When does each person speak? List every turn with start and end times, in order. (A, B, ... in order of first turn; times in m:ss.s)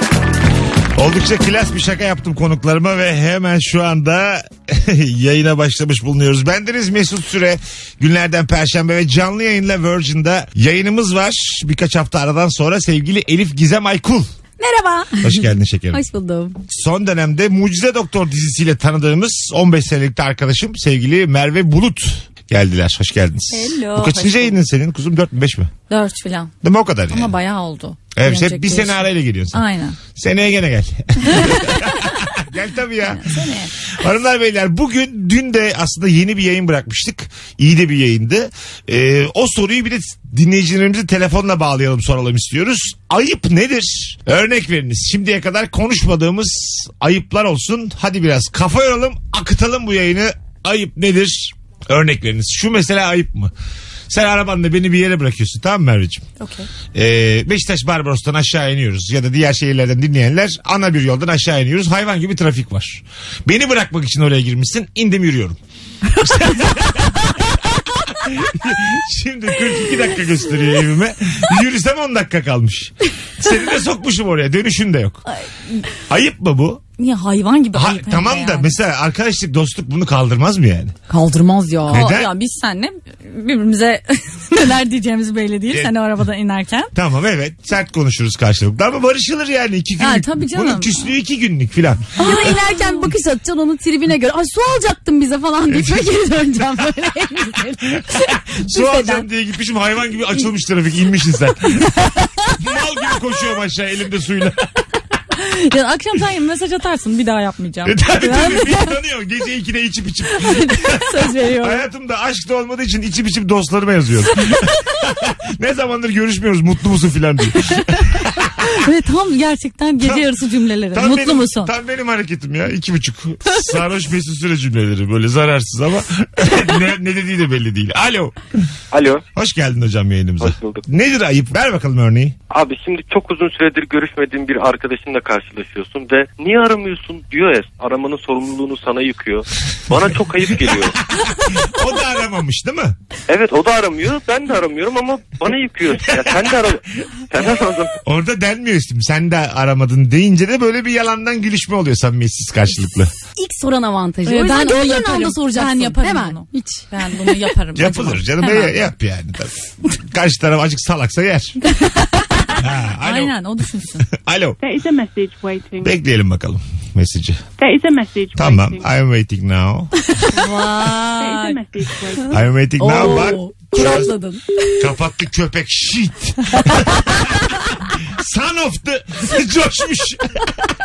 0:01.0-0:14.3 A
0:14.6-0:16.6 B
0:15.2-0:16.0 A
0:16.7-0:25.7 A
0:23.5-0:24.6 C
0:25.9-0:26.5 C
0:26.6-0:27.3 A
0:27.1-0:30.0 C
0:28.1-0:33.4 A
0:31.3-0:32.0 C
0:33.0-0:33.7 C
0:34.0-0:53.5 A
0:54.1-0:56.3 A
0:56.4-0:56.7 C
0:56.9-1:05.6 A
1:06.2-1:15.2 A
1:16.1-1:16.8 A
1:17.0-1:18.7 C
1:17.7-1:20.9 A
1:21.1-1:22.1 B
1:21.9-1:22.3 A
1:21.9-1:26.9 C
1:26.9-1:32.2 A
1:30.0-1:30.9 C
1:32.2-1:39.2 B
1:32.2-1:33.1 C
1:35.7-1:36.1 A
1:38.0-1:41.9 A
1:42.5-1:44.7 A
1:45.3-1:48.9 C
1:47.8-1:58.7 A
1:50.3-1:51.8 C
1:58.6-2:01.7 C
2:00.0-2:00.3 A
2:00.9-2:08.4 A
2:09.3-2:12.4 A
2:10.4-2:10.8 D
2:12.5-2:21.0 D
2:21.1-2:23.0 A
2:23.3-2:28.0 D
2:25.9-2:26.7 A
2:28.0-2:33.1 A
2:33.3-2:37.5 B
2:34.2-2:38.8 C
2:37.7-2:41.6 A
2:42.6-2:43.4 A
2:42.9-2:44.1 C
2:44.1-2:44.6 A
2:44.6-2:46.0 E
2:45.8-2:47.4 A
2:47.6-2:48.9 E
2:48.3-2:49.9 A
2:50.2-2:50.6 B
2:50.3-2:51.6 C
2:51.2-2:52.4 E
2:52.3-2:54.1 A
2:52.8-2:54.9 B
2:54.8-2:57.5 A
2:56.6-2:57.4 B
2:58.1-3:00.4 A